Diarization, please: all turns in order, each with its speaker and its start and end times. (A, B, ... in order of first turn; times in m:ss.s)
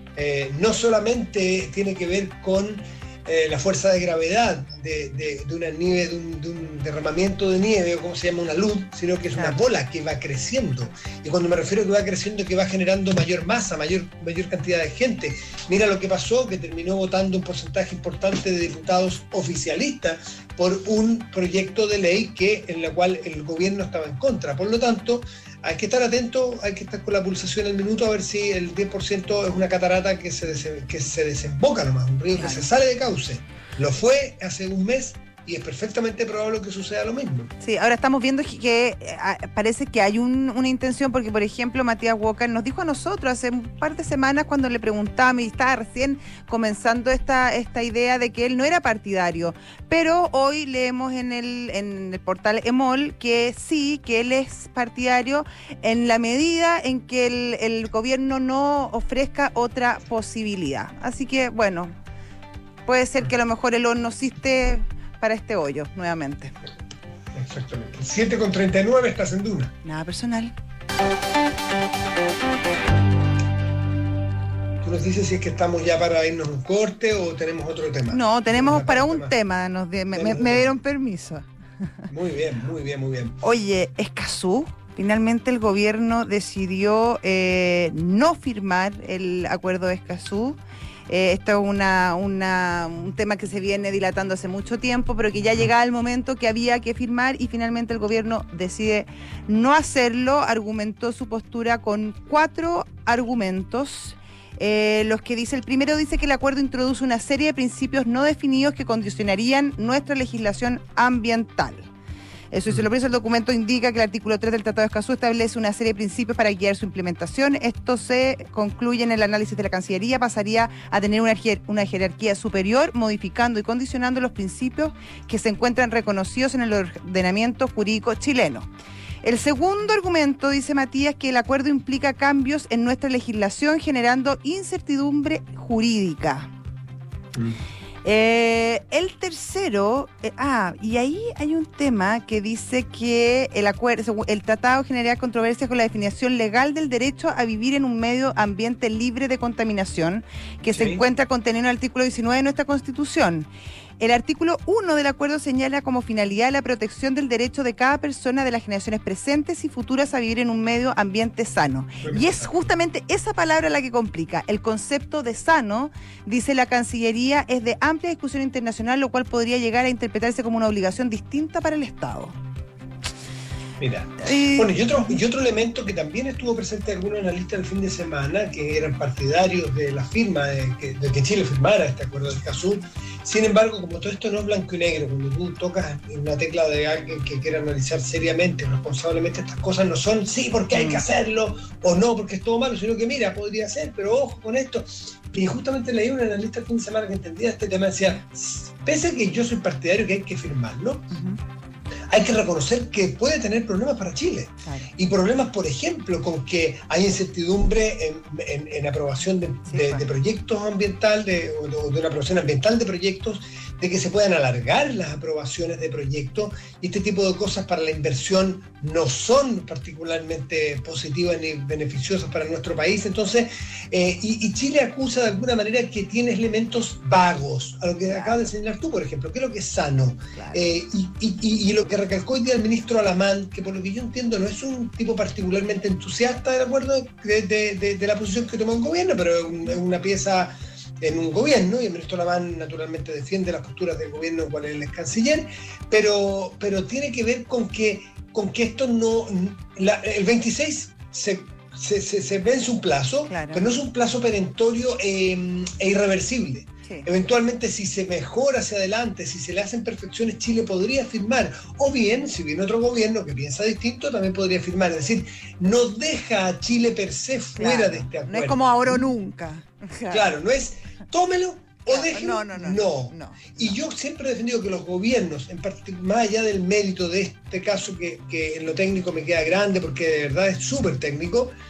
0:00.2-0:37.5 A
0:32.4-0:32.7 B
0:37.6-1:01.9 B
1:02.9-1:06.6 B
1:07.3-1:09.7 A
1:09.8-1:10.6 B
1:14.8-1:19.4 A
1:18.1-1:21.4 B
1:20.1-1:20.8 A
1:22.1-1:23.4 A
1:23.4-1:51.9 B
1:52.5-2:08.7 B
2:09.2-2:16.5 B
2:18.0-2:33.5 B
2:30.7-2:31.0 A
2:34.0-2:52.4 B
2:42.0-2:42.6 A
2:53.8-3:21.2 A
2:54.2-2:54.7 B
3:10.7-3:11.0 B
3:21.1-3:21.4 B
3:22.1-4:29.0 A
3:29.7-3:30.1 B
3:48.1-3:48.4 B
3:50.4-3:50.6 B
4:13.3-4:13.7 B
4:27.6-4:30.3 B
4:30.1-4:41.5 A
4:31.9-4:33.6 B